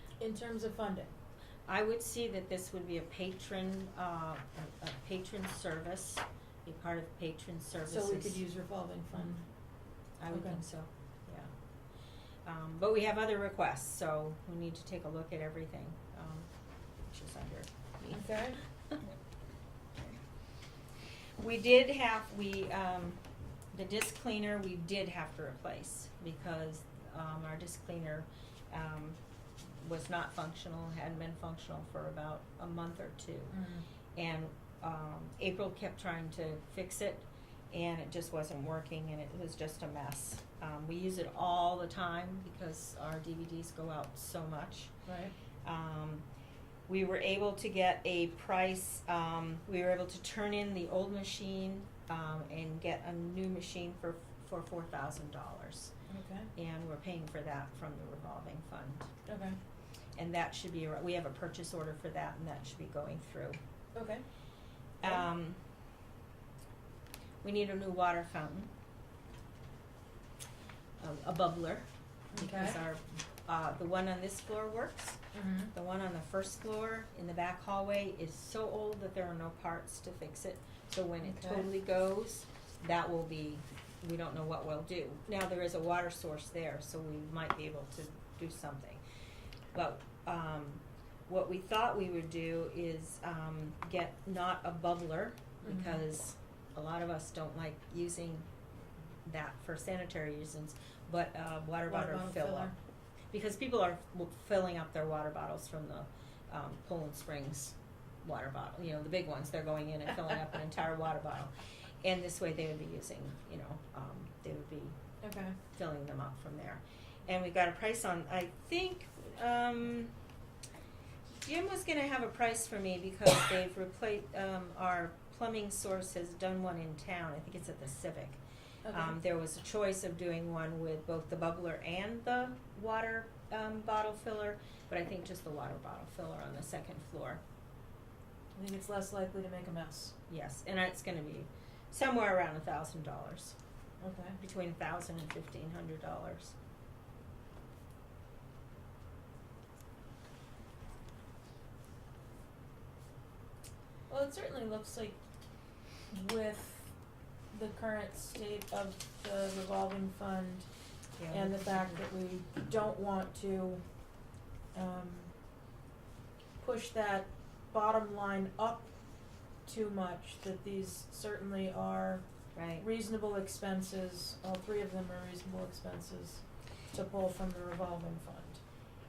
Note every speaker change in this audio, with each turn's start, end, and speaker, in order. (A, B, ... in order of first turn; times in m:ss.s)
0:00.2-0:01.1 A
0:01.7-0:08.4 B
0:07.9-0:09.4 A
0:10.2-0:11.5 B
0:10.3-0:10.6 A
0:12.4-0:16.5 B
0:17.1-0:19.1 B
0:18.1-0:18.6 A
0:21.4-0:23.2 B
0:23.7-0:29.2 B
0:29.8-0:33.6 B
0:33.5-0:33.9 A
0:34.2-0:44.9 B
0:45.1-0:45.3 A
0:45.6-0:46.2 B
0:46.9-0:55.9 B
0:56.1-0:56.5 A
0:56.6-0:59.1 B
0:59.3-0:59.6 A
1:00.2-1:03.6 B
1:04.0-1:04.2 A
1:05.0-1:05.6 B
1:07.4-1:08.7 B
1:11.0-1:15.2 B
1:12.3-1:12.8 A
1:15.3-1:15.7 A
1:15.7-1:29.0 B
1:21.2-1:21.7 A
1:29.7-1:38.5 B
1:35.6-1:36.0 A
1:39.2-1:42.7 B
1:41.9-1:42.7 A
1:43.3-1:51.5 B
1:52.0-1:55.0 B
1:55.2-1:55.6 A
1:55.7-2:00.1 B
2:01.4-2:08.4 B
2:08.9-2:09.2 A
2:08.9-2:17.4 B
2:18.6-2:20.2 A
2:20.3-2:23.6 B
2:24.0-2:24.4 A
2:24.4-2:26.5 B
2:34.1-2:35.2 A
2:36.1-2:36.9 A
2:37.5-2:40.7 A
2:41.2-2:42.0 B
2:41.3-2:43.8 A
2:44.7-2:45.3 A
2:46.6-2:48.9 A
2:49.6-2:52.2 A
2:52.6-2:52.8 B
2:52.8-2:58.6 A